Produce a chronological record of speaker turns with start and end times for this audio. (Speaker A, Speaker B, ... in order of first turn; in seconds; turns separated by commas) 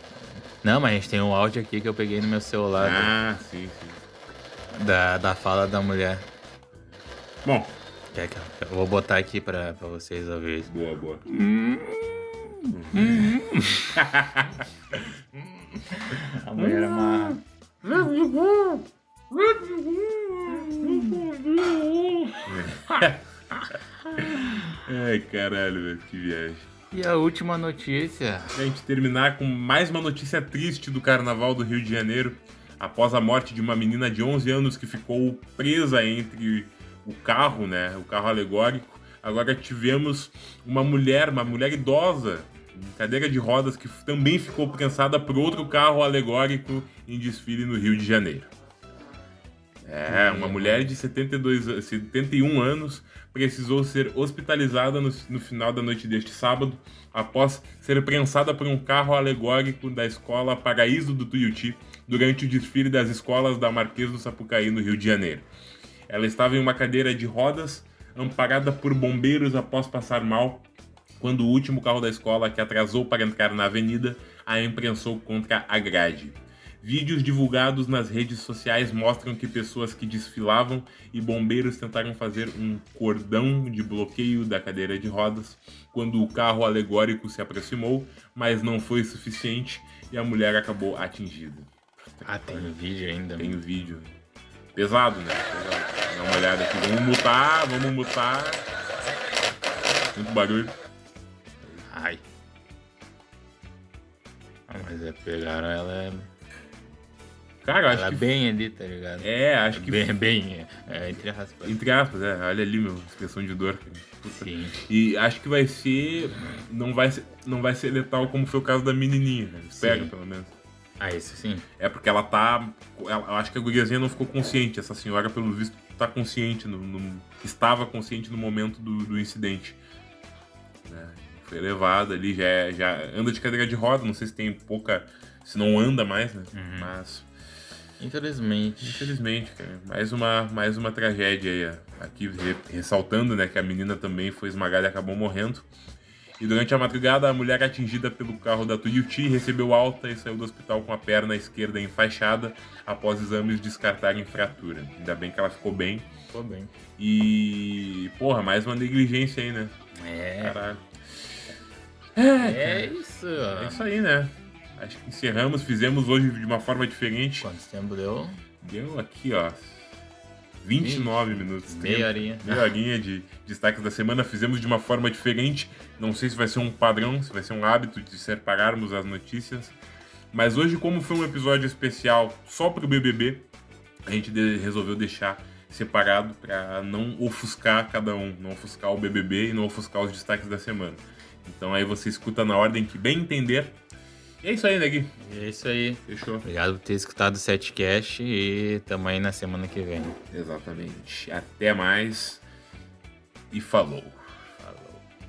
Speaker A: 0.6-3.1, Speaker B: 2.8-4.0, Speaker A: 4.7-6.3, Speaker B: 7.4-7.8, Speaker A: 8.1-10.7, Speaker B: 10.7-11.2, Speaker A: 11.3-13.9, Speaker B: 12.7-14.7, Speaker A: 15.4-17.4, Speaker B: 16.6-23.2, Speaker A: 20.5-21.2, Speaker A: 23.6-24.8, Speaker B: 24.2-26.7, Speaker A: 26.9-28.6, Speaker B: 28.6-48.5, Speaker B: 49.8-65.5, Speaker A: 50.1-51.0, Speaker B: 66.1-70.7, Speaker B: 71.2-92.7, Speaker A: 92.2-93.6, Speaker B: 93.4-94.2, Speaker B: 94.8-98.7, Speaker B: 100.1-100.8, Speaker A: 101.9-102.2, Speaker A: 104.7-106.3, Speaker B: 107.6-108.2, Speaker A: 107.9-111.8, Speaker B: 109.2-110.1, Speaker B: 111.6-120.5, Speaker A: 114.3-114.8, Speaker A: 119.7-120.1, Speaker A: 121.0-121.7, Speaker B: 121.8-129.8, Speaker B: 130.8-137.3, Speaker A: 136.5-136.9, Speaker A: 138.0-139.2, Speaker B: 138.8-145.7, Speaker B: 146.4-156.1, Speaker A: 156.3-156.7, Speaker B: 157.0-159.8, Speaker A: 160.0-160.6, Speaker B: 160.4-160.8, Speaker B: 162.2-162.9, Speaker A: 162.4-163.8, Speaker B: 163.6-167.5, Speaker A: 167.4-168.4, Speaker B: 168.6-169.8, Speaker B: 170.6-179.8, Speaker A: 170.8-172.7, Speaker B: 180.3-183.5, Speaker B: 184.1-193.8, Speaker B: 194.4-195.2, Speaker A: 195.2-200.2, Speaker B: 196.1-196.5, Speaker B: 200.3-202.4, Speaker B: 203.5-204.3, Speaker A: 204.6-205.0